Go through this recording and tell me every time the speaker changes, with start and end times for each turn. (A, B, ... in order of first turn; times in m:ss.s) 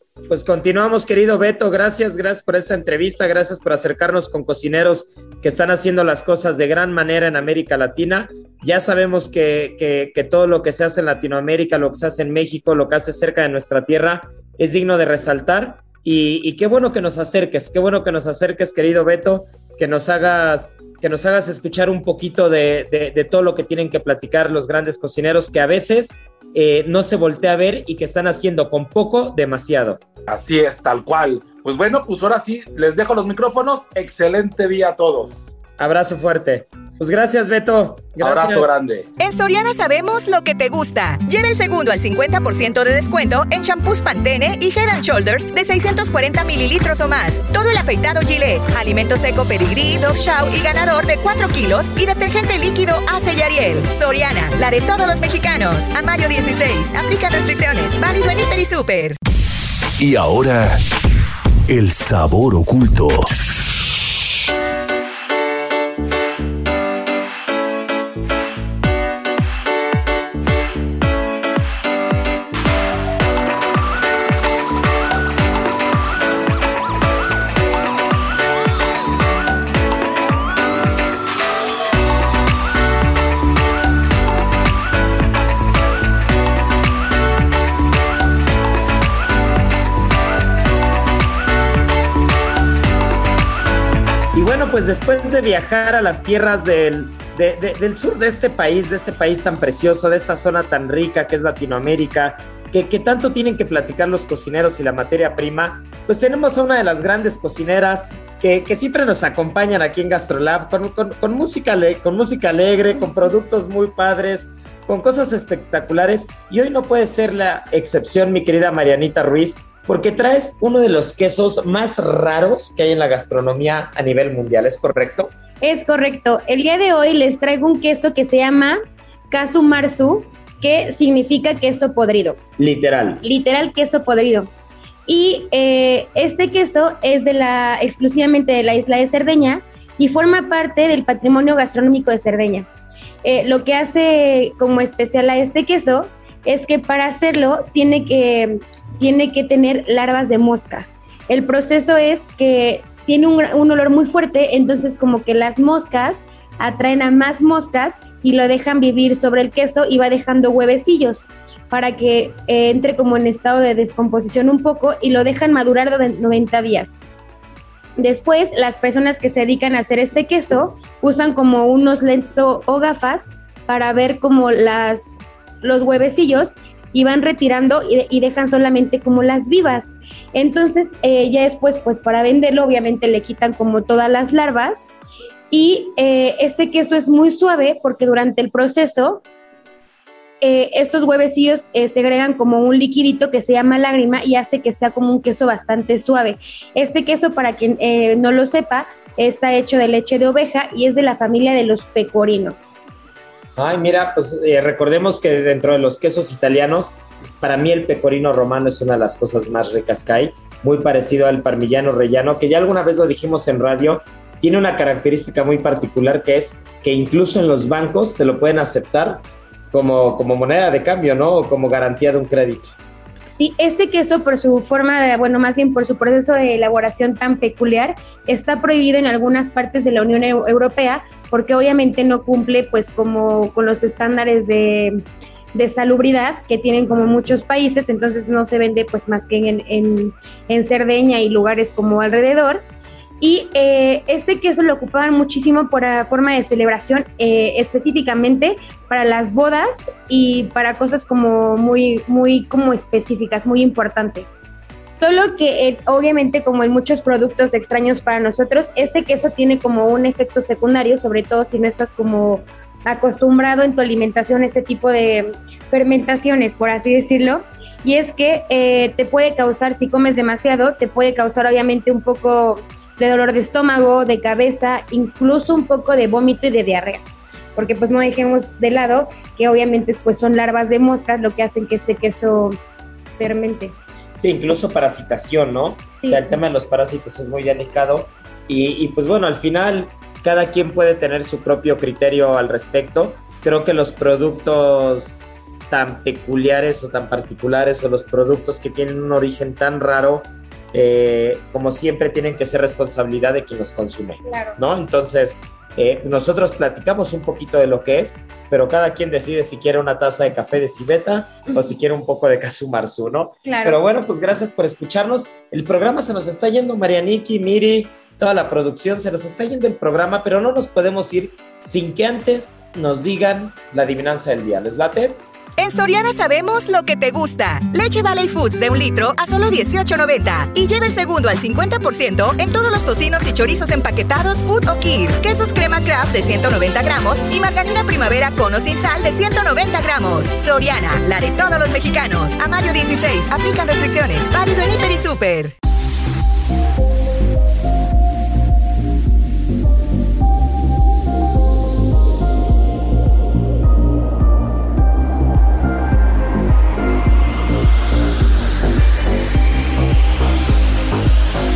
0:00.3-0:30.0 A
0:30.3-0:35.4 B
0:35.8-0:38.7 A
0:38.2-0:39.1 B
0:39.2-0:59.2 C
1:00.0-1:00.8 D
1:01.7-1:03.3 D
1:34.3-2:05.3 A
2:05.6-2:12.4 E
2:12.6-2:13.2 A
2:13.2-2:14.5 E
2:15.1-2:22.7 E
2:23.2-2:47.0 E
2:48.0-3:04.9 E
3:05.5-3:09.2 E
3:10.4-3:22.7 E
3:23.6-3:42.7 A
3:43.3-4:02.6 E
4:03.2-4:14.4 E
4:14.9-4:37.0 E
4:37.6-4:42.6 E
4:43.2-4:43.8 E
4:44.2-4:55.2 A
4:45.9-4:46.4 E
4:55.7-5:25.2 A
5:04.3-5:04.6 E
5:13.4-5:13.8 E
5:25.6-5:45.5 C